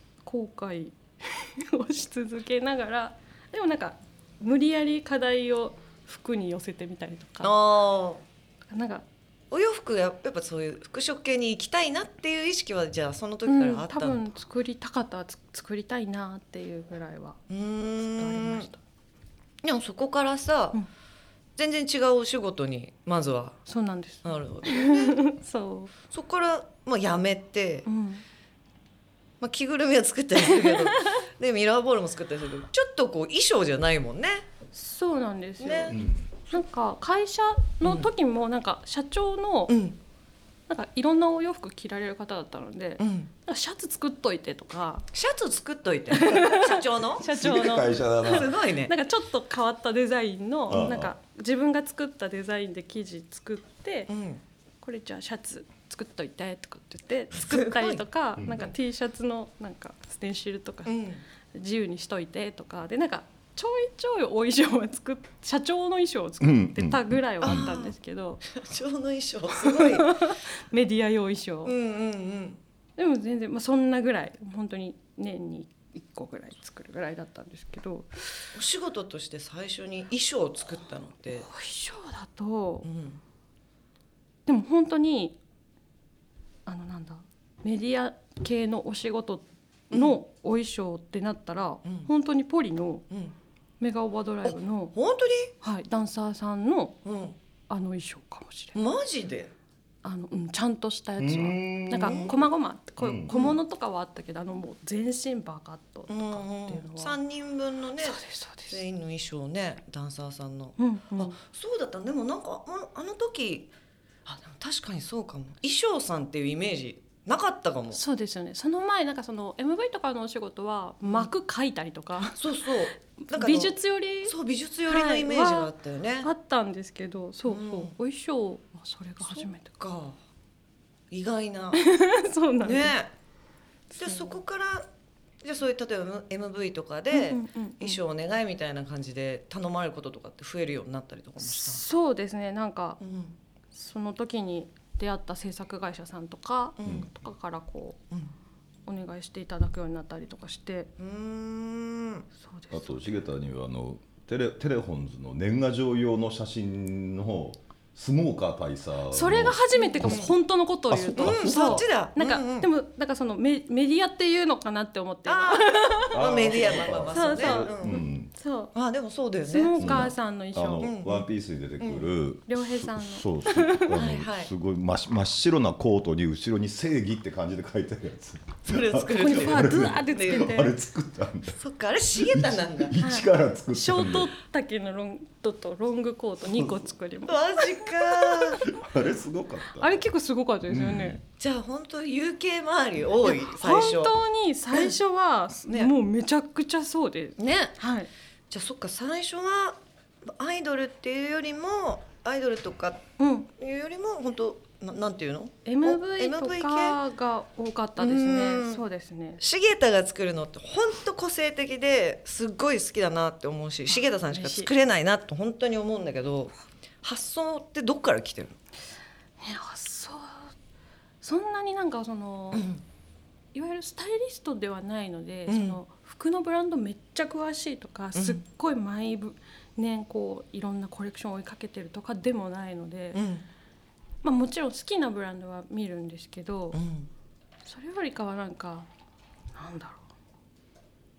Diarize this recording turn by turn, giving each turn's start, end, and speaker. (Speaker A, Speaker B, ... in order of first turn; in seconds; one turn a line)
Speaker A: 0.2-7.6
Speaker B: 7.4-8.2
Speaker A: 8.7-9.0
Speaker B: 9.5-14.2
Speaker A: 13.4-17.4
Speaker B: 17.5-18.7
Speaker A: 18.0-18.8
Speaker B: 19.6-20.8
Speaker B: 21.6-23.6
Speaker A: 23.7-25.9
Speaker B: 24.2-25.2
Speaker B: 26.1-27.9
Speaker A: 27.9-28.2
Speaker B: 29.4-34.5
Speaker A: 30.5-31.2
Speaker A: 34.7-39.8
Speaker B: 35.6-36.0
Speaker B: 39.7-40.0
Speaker A: 40.7-45.1
Speaker B: 43.0-43.3
Speaker B: 45.1-47.2
Speaker A: 46.1-54.1
Speaker C: 47.2-48.5
Speaker B: 48.2-48.9
Speaker C: 50.7-51.1
Speaker B: 54.1-54.4
Speaker A: 54.8-61.0
Speaker B: 57.3-58.0
Speaker B: 60.9-61.2
Speaker A: 61.5-68.4
Speaker C: 66.4-67.6
Speaker B: 67.4-67.9
Speaker B: 68.5-70.1
Speaker A: 69.5-71.7
Speaker B: 71.6-72.6
Speaker A: 73.0-78.5
Speaker B: 78.5-81.5
Speaker A: 81.3-82.9
Speaker B: 82.8-83.2
Speaker A: 84.5-85.4
Speaker A: 86.7-93.0
Speaker B: 89.9-90.2
Speaker B: 91.8-92.1
Speaker B: 93.1-93.3
Speaker A: 93.8-94.9
Speaker B: 94.5-95.5
Speaker A: 95.6-97.0
Speaker B: 97.0-97.3
Speaker A: 97.7-98.8
Speaker B: 98.7-99.5
Speaker A: 100.0-107.2
Speaker C: 101.2-102.3
Speaker B: 102.0-102.3
Speaker C: 103.0-103.3
Speaker B: 103.3-103.6
Speaker B: 106.1-113.7
Speaker A: 108.0-108.8
Speaker A: 110.8-111.3
Speaker B: 114.2-118.0
Speaker A: 117.9-124.3
Speaker B: 121.0-121.3
Speaker B: 122.4-126.3
Speaker A: 124.9-125.7
Speaker A: 126.2-129.7
Speaker B: 127.5-127.9
Speaker B: 129.2-130.2
Speaker B: 131.1-131.8
Speaker A: 131.7-132.9
Speaker B: 132.6-133.1
Speaker A: 133.9-134.3
Speaker B: 134.0-134.9
Speaker B: 135.4-141.8
Speaker A: 137.1-138.0
Speaker A: 141.4-143.0
Speaker B: 143.0-143.3
Speaker A: 143.7-148.0
Speaker B: 146.8-147.1
Speaker A: 148.9-150.9
Speaker B: 151.0-152.2
Speaker A: 152.4-153.1
Speaker C: 152.7-160.3
Speaker A: 159.1-166.2
Speaker B: 159.7-160.3
Speaker C: 160.9-161.8
Speaker B: 161.2-162.7
Speaker B: 165.2-168.0
Speaker C: 166.1-168.3
Speaker A: 167.1-168.7
Speaker B: 168.7-170.1
Speaker A: 169.4-170.9
Speaker C: 169.8-181.6
Speaker B: 170.8-171.3
Speaker B: 171.8-172.1
Speaker A: 172.5-174.0
Speaker B: 173.9-174.5
Speaker B: 178.7-180.5
Speaker A: 179.1-180.7
Speaker B: 181.5-183.0
Speaker C: 182.2-184.3
Speaker A: 183.0-188.6
Speaker B: 187.3-188.6
Speaker C: 188.6-190.0
Speaker A: 189.8-191.2
Speaker C: 190.7-191.2
Speaker B: 191.4-194.2
Speaker A: 193.2-198.1
Speaker B: 194.7-195.0
Speaker B: 195.7-195.9
Speaker B: 197.4-197.7
Speaker B: 198.5-203.0
Speaker A: 203.2-203.5
Speaker B: 203.6-207.0
Speaker A: 205.6-209.4
Speaker B: 208.0-208.8
Speaker B: 209.4-218.6
Speaker A: 213.9-214.7
Speaker A: 219.4-220.5
Speaker A: 221.2-222.7
Speaker B: 222.5-222.8
Speaker A: 223.5-233.2
Speaker B: 225.5-225.8
Speaker B: 228.1-228.4
Speaker B: 233.1-233.4
Speaker A: 234.2-236.8
Speaker B: 236.7-237.1
Speaker A: 237.6-238.9
Speaker A: 239.5-240.0